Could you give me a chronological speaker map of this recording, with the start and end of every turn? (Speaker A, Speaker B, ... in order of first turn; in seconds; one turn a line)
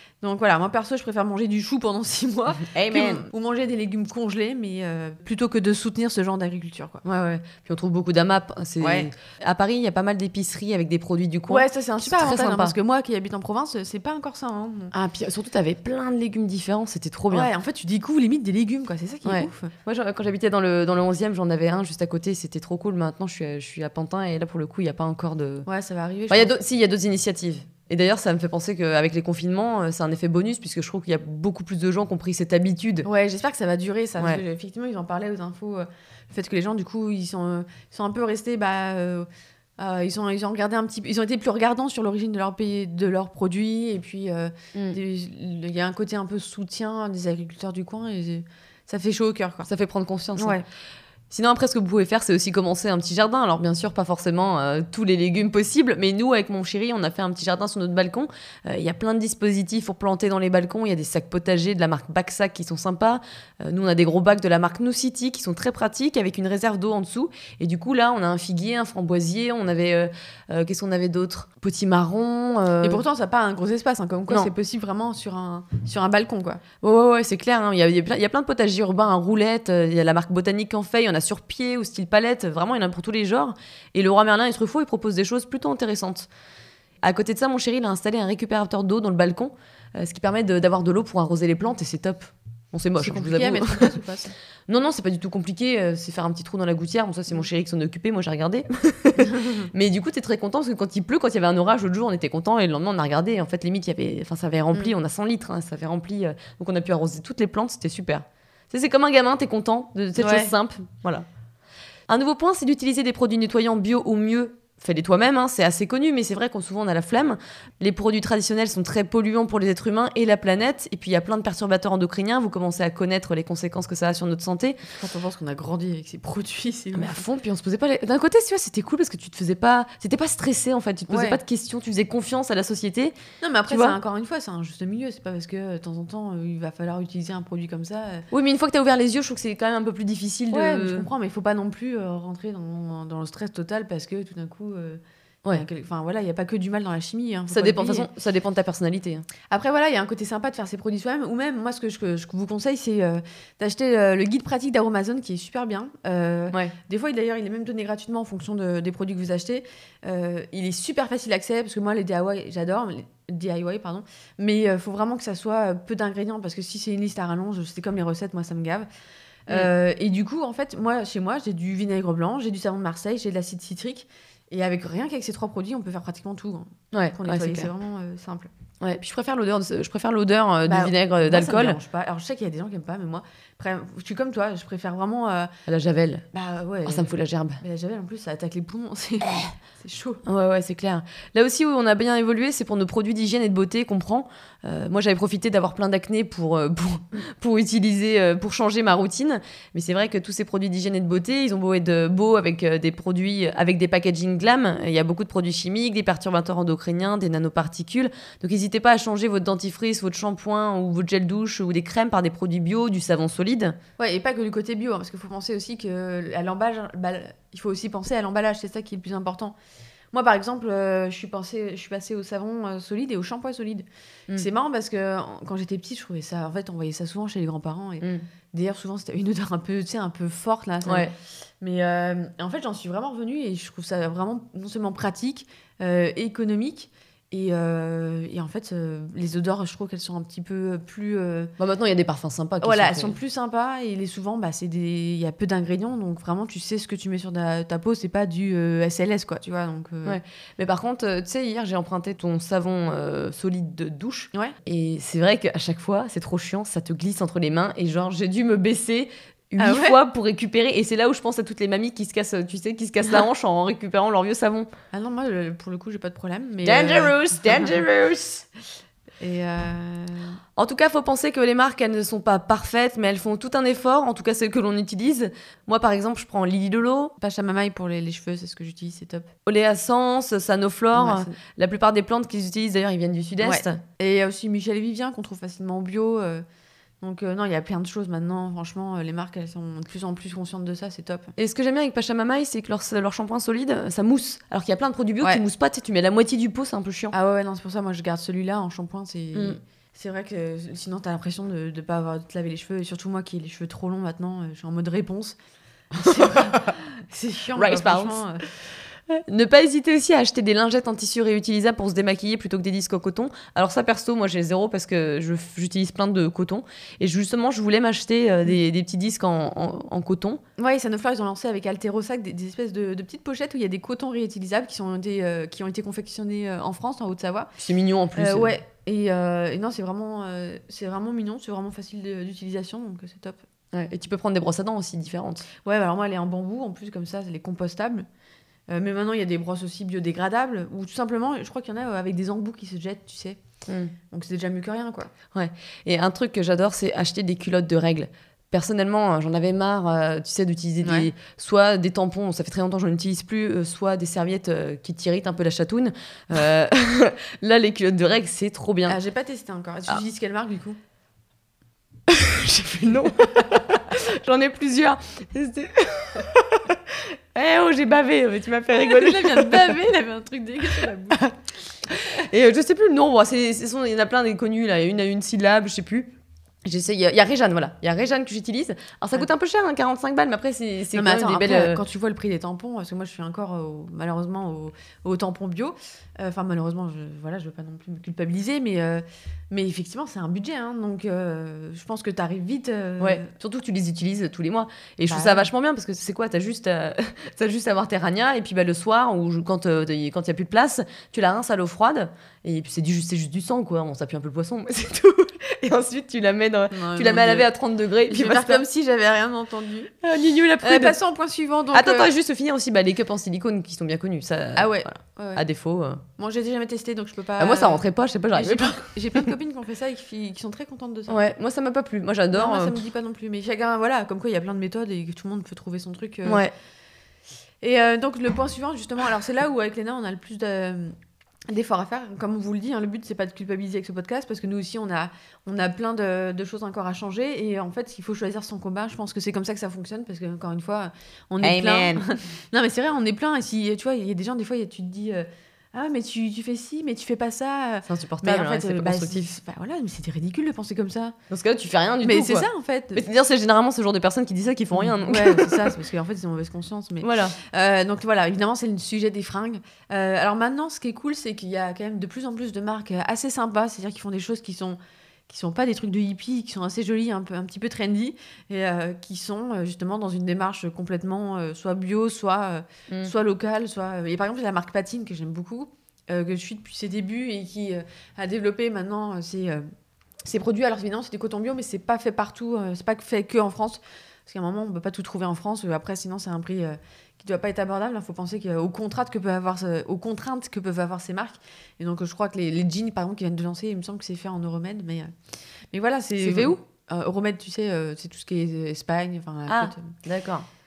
Speaker A: 0.2-7.0
Speaker B: 2.7-3.3
Speaker B: 7.0-12.8
Speaker A: 8.8-9.1
Speaker A: 11.5-14.9
Speaker B: 14.9-17.5
Speaker A: 17.3-19.7
Speaker B: 19.2-25.7
Speaker A: 25.7-26.5
Speaker B: 26.3-33.1
Speaker A: 33.0-39.3
Speaker A: 39.8-49.7
Speaker B: 49.6-50.6
Speaker A: 50.4-50.6
Speaker B: 51.3-73.0
Speaker A: 72.8-76.6
Speaker B: 76.8-86.3
Speaker B: 87.0-93.9
Speaker A: 93.0-94.3
Speaker B: 94.7-111.2
Speaker A: 99.3-99.6
Speaker A: 110.2-110.5
Speaker B: 112.1-124.8
Speaker A: 125.0-127.2
Speaker B: 126.9-133.1
Speaker A: 131.1-131.4
Speaker A: 133.4-138.3
Speaker B: 133.7-134.0
Speaker B: 138.3-141.1
Speaker A: 140.5-145.0
Speaker A: 145.5-148.1
Speaker B: 147.5-149.3
Speaker A: 149.5-168.9
Speaker A: 169.5-178.5
Speaker B: 176.9-177.7
Speaker B: 178.8-181.8
Speaker A: 180.7-185.5
Speaker B: 185.7-186.3
Speaker A: 186.3-190.2
Speaker B: 186.9-187.6
Speaker B: 190.2-213.8
Speaker A: 214.0-219.6
Speaker A: 220.1-231.1
Speaker B: 230.8-231.1
Speaker A: 231.6-241.5
Speaker B: 241.6-243.2
Speaker A: 242.6-250.2
Speaker B: 250.1-264.7
Speaker A: 259.6-260.0
Speaker A: 264.9-267.8
Speaker B: 266.6-268.5
Speaker A: 269.2-270.4
Speaker B: 270.6-277.1
Speaker A: 277.2-279.3
Speaker B: 279.4-283.8
Speaker A: 280.9-281.4
Speaker A: 283.4-286.4
Speaker A: 287.0-291.3
Speaker B: 291.4-297.1
Speaker A: 297.1-305.4
Speaker B: 306.0-306.7
Speaker A: 306.0-308.4
Speaker B: 307.6-308.2
Speaker B: 309.1-320.4
Speaker A: 320.6-327.5
Speaker B: 327.6-328.6
Speaker A: 328.2-333.4
Speaker B: 333.7-335.5
Speaker A: 335.6-338.1
Speaker A: 338.7-343.4
Speaker B: 343.7-343.9
Speaker A: 344.1-345.1
Speaker B: 345.3-359.0
Speaker A: 350.8-351.1
Speaker A: 358.9-360.8
Speaker B: 362.1-366.8
Speaker B: 367.3-369.7
Speaker A: 368.8-371.3
Speaker B: 371.9-376.1
Speaker B: 376.6-381.8
Speaker A: 380.9-393.3
Speaker B: 393.0-408.6
Speaker A: 395.1-395.5
Speaker A: 406.7-407.5
Speaker A: 408.1-409.9
Speaker B: 410.0-410.9
Speaker A: 410.6-412.1
Speaker B: 411.7-416.0
Speaker A: 414.6-415.4
Speaker A: 416.2-421.2
Speaker B: 417.4-419.3
Speaker B: 421.1-422.8
Speaker A: 422.3-426.4
Speaker B: 426.2-426.5
Speaker A: 427.6-430.9
Speaker A: 431.5-451.2
Speaker B: 441.4-442.1
Speaker B: 447.9-449.3
Speaker B: 451.3-455.8
Speaker A: 452.0-453.0
Speaker A: 454.8-479.6
Speaker B: 457.0-457.4
Speaker A: 480.2-495.1
Speaker A: 495.7-499.9
Speaker B: 496.2-496.6
Speaker B: 499.5-500.5